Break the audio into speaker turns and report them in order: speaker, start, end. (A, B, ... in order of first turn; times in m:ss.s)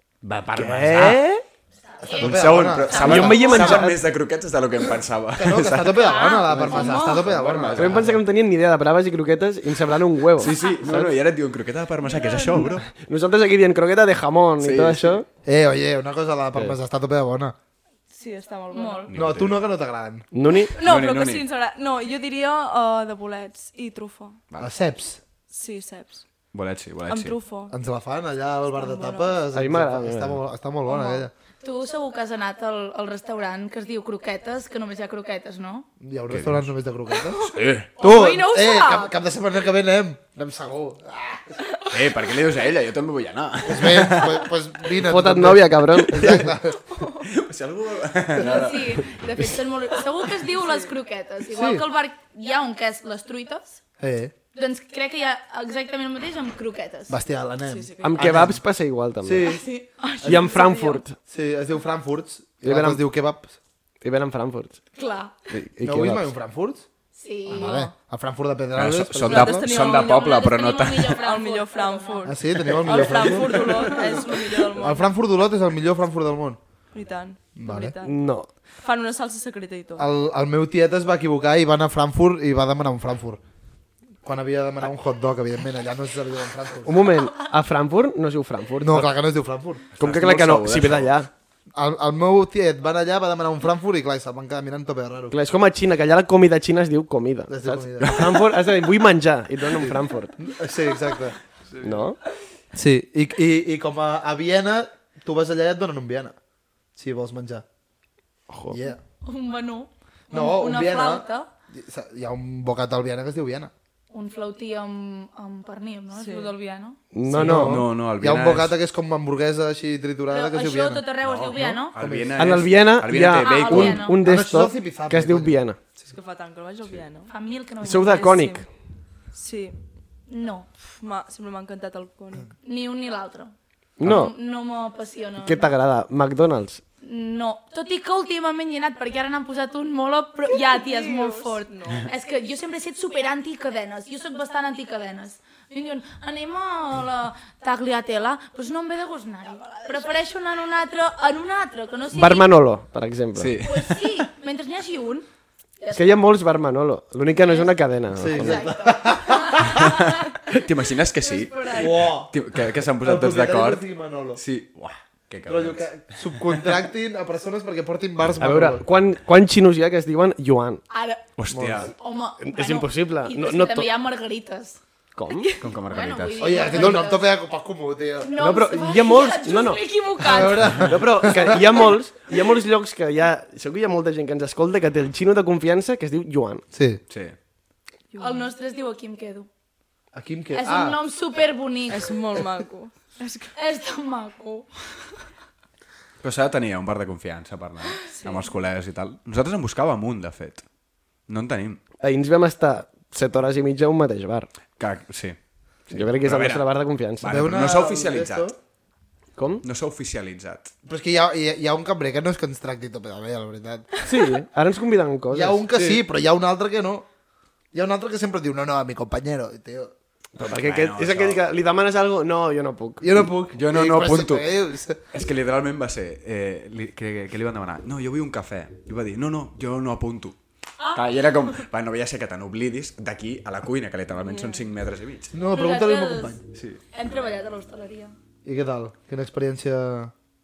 0:00.2-0:01.2 A
0:00.5-0:01.4 B
0:01.9-0:02.3 C
0:02.0-0:03.8 D
0:02.1-0:08.2 A
0:02.9-0:03.8 C
0:03.0-0:04.0 B
0:05.4-0:08.0 D
0:06.0-0:07.2 C
0:06.7-0:07.2 E
0:07.7-0:11.1 B
0:10.4-0:12.8 A
0:12.0-0:12.8 E
0:12.9-0:15.2 B
0:14.6-0:15.2 A
0:15.4-0:17.6 D
0:18.1-0:19.1 E
0:18.7-0:19.1 C
0:19.1-0:19.6 A
0:19.1-0:20.2 D
0:20.3-0:20.7 B
0:20.7-0:24.4 E
0:20.8-0:21.4 A
0:24.6-0:25.2 D
0:25.5-0:26.3 E
0:26.5-0:27.4 A
0:27.1-0:27.8 E
0:27.7-0:31.3 D
0:28.7-0:29.4 E
0:29.5-0:30.4 B
0:30.9-0:35.9 C
0:36.0-0:37.4 D
0:36.3-0:36.7 A
0:37.3-0:38.0 A
0:38.0-0:39.1 C
0:38.0-0:41.6 D
0:41.9-0:44.4 A
0:43.6-0:46.8 D
0:45.1-0:46.5 B
0:46.9-0:47.3 E
0:47.2-0:49.4 A
0:48.4-0:53.8 C
0:50.5-0:50.9 E
0:51.5-0:51.8 D
0:54.0-0:54.3 D
0:54.5-0:57.2 C
0:57.1-0:58.6 D
0:57.6-0:58.2 E
0:58.0-0:59.5 B
0:59.2-0:59.6 D
0:59.4-1:01.0 C
1:00.2-1:01.2 B
1:00.2-1:01.0 E
1:01.2-1:03.6 D
1:02.6-1:03.0 B
1:04.0-1:04.8 B
1:05.0-1:05.3 C
1:05.5-1:06.3 B
1:05.8-1:06.9 D
1:07.1-1:07.9 C
1:07.5-1:09.7 D
1:07.5-1:07.9 E
1:08.8-1:11.2 A
1:09.2-1:15.1 E
1:09.8-1:12.4 C
1:12.2-1:16.6 D
1:12.9-1:13.8 C
1:16.9-1:18.2 E
1:17.6-1:18.0 D
1:18.0-1:18.5 B
1:18.7-1:20.1 E
1:20.0-1:23.4 D
1:24.2-1:26.9 D
1:26.8-1:29.1 B
1:28.8-1:29.8 D
1:30.0-1:31.3 B
1:30.0-1:31.1 A
1:31.7-1:35.3 D
1:35.3-1:40.4 B
1:37.5-1:38.3 D
1:38.0-1:38.5 A
1:39.7-1:41.4 D
1:41.8-1:42.2 B
1:42.7-1:46.3 D
1:46.9-1:47.6 D
1:48.5-1:48.8 B
1:48.7-1:49.0 D
1:49.2-1:51.5 C
1:50.3-1:53.7 D
1:54.1-1:57.0 C
1:56.1-1:56.5 E
1:57.1-1:57.8 B
1:57.3-2:01.0 D
1:57.4-1:58.7 A
2:00.3-2:01.9 C
2:01.2-2:04.1 A
2:01.9-2:02.6 D
2:02.4-2:05.8 B
2:03.4-2:04.2 C
2:04.2-2:05.5 D
2:06.1-2:07.3 E
2:07.3-2:08.4 C
2:07.8-2:08.6 B
2:07.9-2:08.6 E
2:09.3-2:09.8 E
2:10.3-2:10.7 C
2:10.9-2:12.5 E
2:12.6-2:15.7 C
2:14.0-2:14.3 B
2:15.4-2:16.8 B
2:17.0-2:32.5 C
2:20.5-2:22.1 E
2:32.1-2:33.6 B
2:33.4-2:34.3 A
2:33.6-2:35.2 C
2:35.8-2:36.3 C
2:35.9-2:38.7 B
2:37.3-2:37.7 C
2:38.2-2:39.8 D
2:38.3-2:39.9 C
2:39.7-2:43.8 A
2:41.2-2:42.0 C
2:41.7-2:42.3 D
2:43.0-2:44.4 D
2:44.4-2:46.7 A
2:45.5-2:48.8 D
2:48.4-2:50.8 B
2:50.9-2:51.2 C
2:51.4-2:51.9 A
2:51.5-2:51.8 D
2:51.9-2:54.8 C
2:52.4-2:53.9 B
2:55.1-2:55.5 B
2:55.3-2:55.6 E
2:55.6-2:56.9 A
2:55.8-2:57.3 C
2:56.4-2:58.3 D
2:58.2-3:00.8 C
2:58.4-2:59.8 B
3:00.2-3:01.8 D
3:00.8-3:06.6 B
3:06.7-3:07.0 D
3:07.1-3:07.4 A
3:08.1-3:08.5 E
3:08.2-3:09.5 C
3:10.1-3:11.0 D
3:10.5-3:12.1 C
3:11.9-3:13.5 E
3:13.5-3:15.1 C
3:16.2-3:20.6 A
3:18.1-3:18.5 E
3:21.3-3:21.8 A
3:22.0-3:24.5 B
3:24.8-3:26.6 A
3:25.9-3:27.4 B
3:27.2-3:28.5 A
3:27.2-3:28.5 D
3:29.4-3:29.6 B
3:29.6-3:30.7 A
3:30.8-3:33.9 D
3:34.0-3:35.6 B
3:35.3-3:37.1 D
3:37.7-3:39.9 D
3:40.4-3:43.1 B
3:40.4-3:41.4 A
3:43.0-3:45.1 D
3:43.2-3:44.5 A
3:45.1-3:50.4 A
3:50.8-3:51.6 C
3:50.9-3:55.4 A
3:54.2-3:54.6 E
3:55.3-3:56.4 D
3:55.5-3:56.4 C
3:56.5-3:56.8 A
3:56.9-3:58.1 C
3:58.4-4:00.1 D